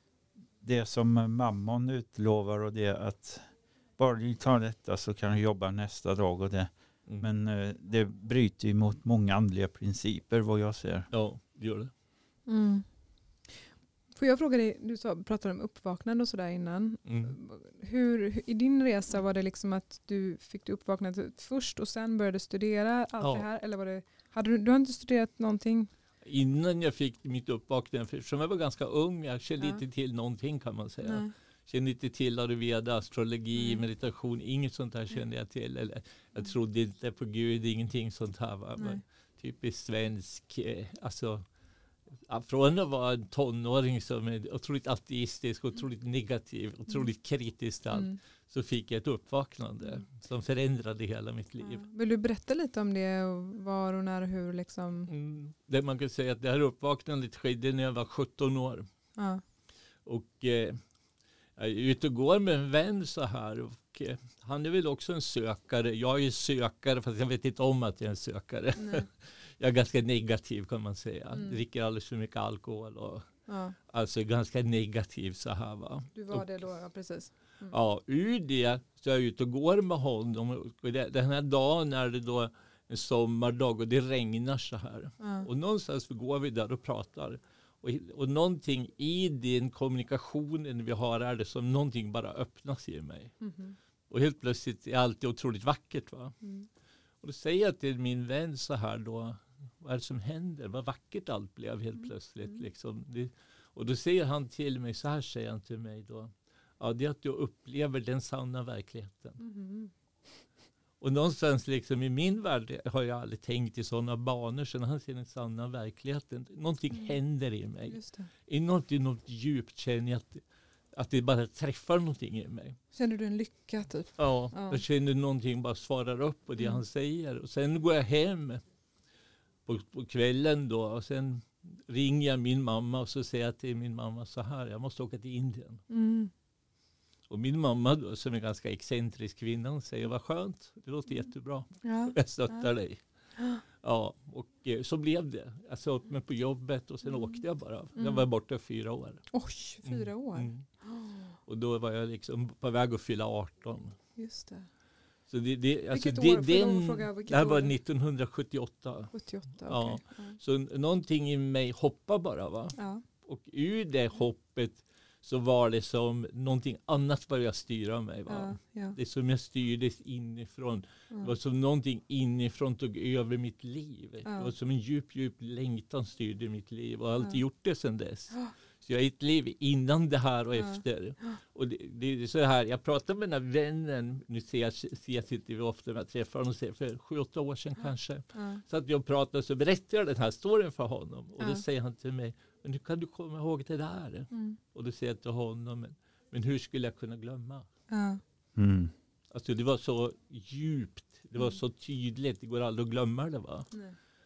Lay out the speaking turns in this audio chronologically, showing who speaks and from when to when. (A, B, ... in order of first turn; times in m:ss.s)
0:00.6-0:11.1 A
0:11.1-0:11.9 B
0:12.5-0:12.9 C
0:14.1-0:25.9 C
0:17.0-0:17.4 B
0:23.2-0:23.4 B
0:26.2-0:41.4 B
0:31.0-0:31.3 C
0:33.5-0:33.8 C
0:42.3-0:51.8 B
0:47.9-0:48.2 C
0:51.6-0:55.1 C
0:55.1-0:58.9 B
0:59.2-0:59.4 C
1:00.0-1:00.8 B
1:01.6-1:13.3 B
1:08.8-1:09.1 C
1:13.5-1:13.8 C
1:13.9-1:16.4 B
1:16.1-1:17.7 C
1:17.7-1:33.3 B
1:25.2-1:25.5 C
1:33.4-1:33.8 C
1:34.1-1:36.4 B
1:36.4-1:36.7 C
1:37.2-1:49.4 B
1:49.4-1:49.9 C
1:51.0-2:00.4 B
1:57.9-1:58.3 C
2:01.0-2:02.8 B
2:02.9-2:04.8 C
2:04.2-2:08.6 B
2:09.6-2:15.8 B
2:15.9-2:16.3 C
2:17.3-2:23.0 B
2:21.8-2:22.7 C
2:23.8-2:29.2 B
2:28.0-2:28.2 C
2:29.3-2:31.4 C
2:29.8-2:30.6 B
2:31.4-2:34.0 B
2:34.2-2:34.7 C
2:35.3-2:39.1 B
2:35.9-2:37.7 C
2:39.1-2:40.4 C
2:39.6-3:17.7 B
2:42.7-2:43.0 C
2:48.3-2:49.0 C
2:54.2-2:54.5 C
3:00.6-3:01.4 C
3:08.3-3:08.6 C
3:14.3-3:14.6 C
3:17.9-3:18.2 C
3:18.6-3:18.9 A
3:19.3-3:23.7 B